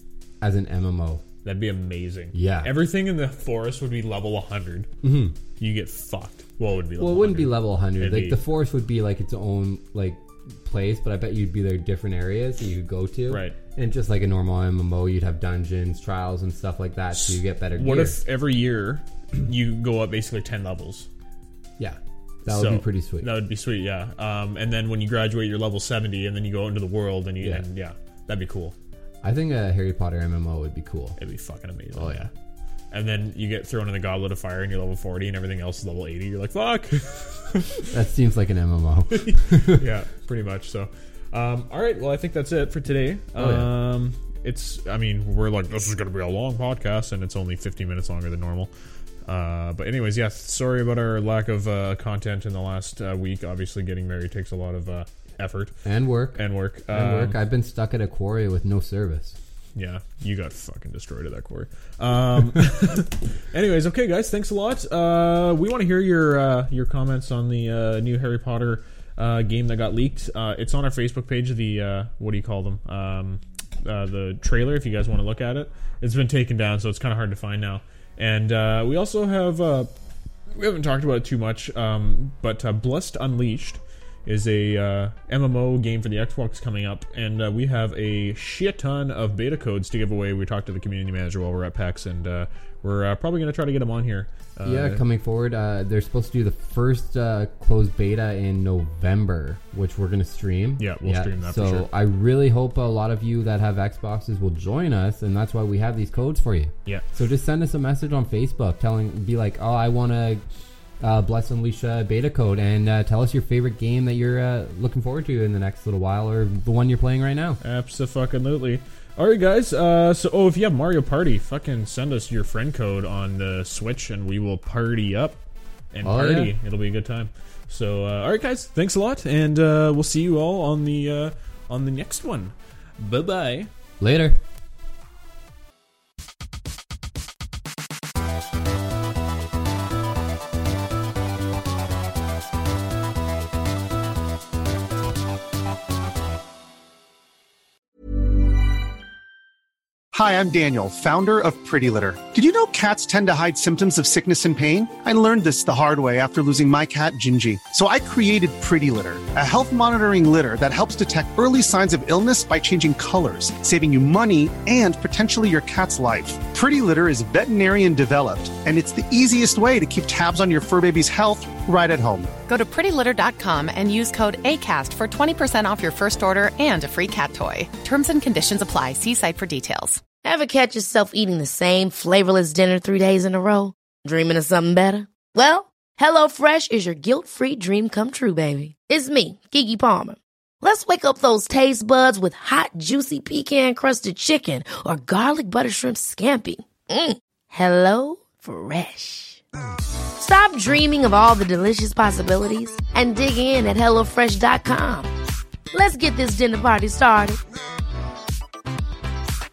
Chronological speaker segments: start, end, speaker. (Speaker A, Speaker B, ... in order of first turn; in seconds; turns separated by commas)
Speaker A: 0.4-1.2, Speaker B: 1.4-4.9, Speaker A: 2.3-2.7, Speaker A: 5.0-5.4, Speaker B: 5.6-8.4, Speaker A: 7.0-18.2, Speaker B: 13.3-13.6, Speaker B: 17.1-21.1, Speaker A: 21.8-23.3, Speaker B: 22.5-28.8, Speaker A: 27.4-27.7, Speaker A: 29.2-31.2, Speaker B: 31.2-32.3, Speaker A: 31.9-32.3, Speaker B: 32.9-37.9, Speaker A: 37.9-39.9, Speaker B: 39.1-48.7, Speaker A: 43.4-43.7, Speaker B: 49.2-55.7, Speaker A: 55.8-59.4, Speaker B: 56.3-57.4, Speaker B: 59.8-79.9, Speaker B: 80.5-95.0, Speaker A: 94.6-110.4, Speaker B: 100.8-101.9, Speaker A: 111.0-117.6, Speaker B: 117.6-125.4, Speaker B: 125.9-133.7, Speaker A: 126.0-126.5, Speaker A: 134.0-134.4, Speaker C: 150.1-172.3, Speaker D: 172.5-180.0, Speaker E: 180.2-199.4, Speaker E: 200.2-205.1, Speaker E: 205.7-207.4